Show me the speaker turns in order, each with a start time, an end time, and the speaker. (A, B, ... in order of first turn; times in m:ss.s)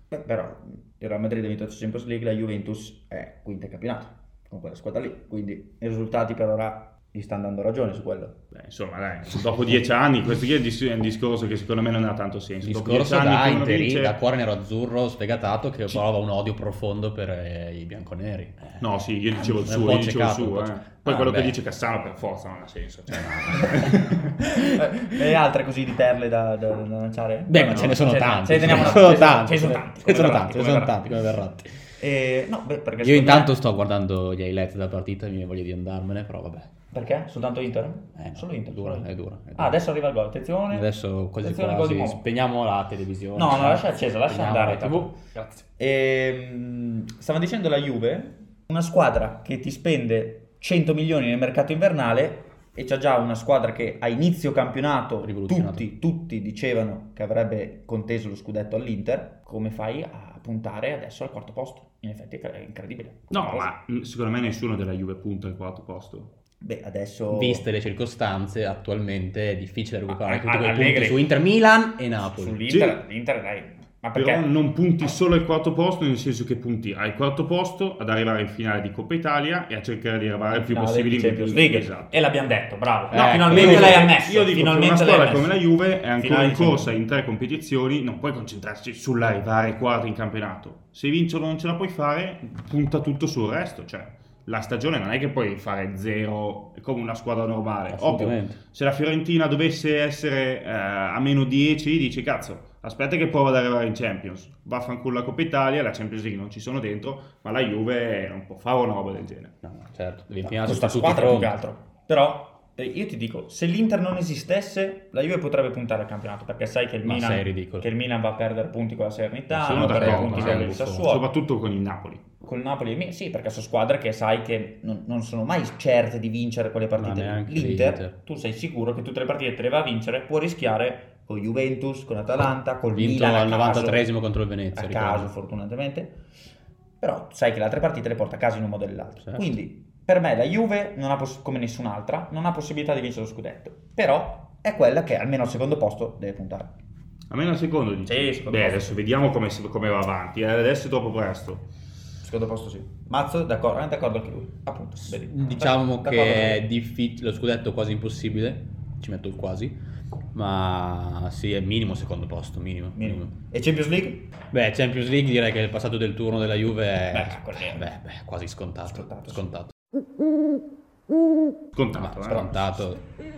0:00.1-0:08.4 A
0:08.5-0:14.2 B
0:12.6-0:18.8 C
0:18.8-0:24.3 B
0:19.4-0:21.6 C
0:23.1-0:24.8 C
0:24.4-0:31.1 A
0:27.5-0:31.8 C
0:28.6-0:28.9 B
0:32.0-0:33.6 A
0:33.0-0:36.7 C
0:36.9-0:40.9 A
0:38.2-0:39.8 C
0:40.7-0:45.5 C
0:41.4-0:42.2 A
0:43.4-1:03.7 A
0:55.2-0:55.9 C
1:03.3-1:06.3 B
1:06.6-1:07.6 A
1:07.3-1:12.6 C
1:10.1-1:11.4 A
1:12.2-1:14.5 A
1:12.7-1:13.0 B
1:14.2-1:22.1 B
1:20.5-1:25.6 A
1:23.1-1:24.1 C
1:23.1-1:49.6 B
1:26.2-1:27.0 A
1:37.9-1:38.6 C
1:49.6-1:51.5 C
1:50.4-2:01.3 A
1:57.0-1:57.9 C
1:59.5-2:01.1 C
1:59.6-2:02.2 B
2:02.4-2:14.1 A
2:07.0-2:08.1 C
2:12.9-2:15.3 C
2:14.7-2:16.2 A
2:17.0-2:26.7 A
2:27.3-2:31.6 B
2:28.1-2:29.0 A
2:32.2-2:36.6 A
2:35.1-2:39.8 C
2:40.3-2:43.3 C
2:43.0-2:44.3 A
2:44.5-2:49.7 C
2:47.1-2:47.9 A
2:48.9-2:49.5 A
2:51.7-2:52.5 B
2:52.0-2:53.0 C
2:52.4-2:52.8 A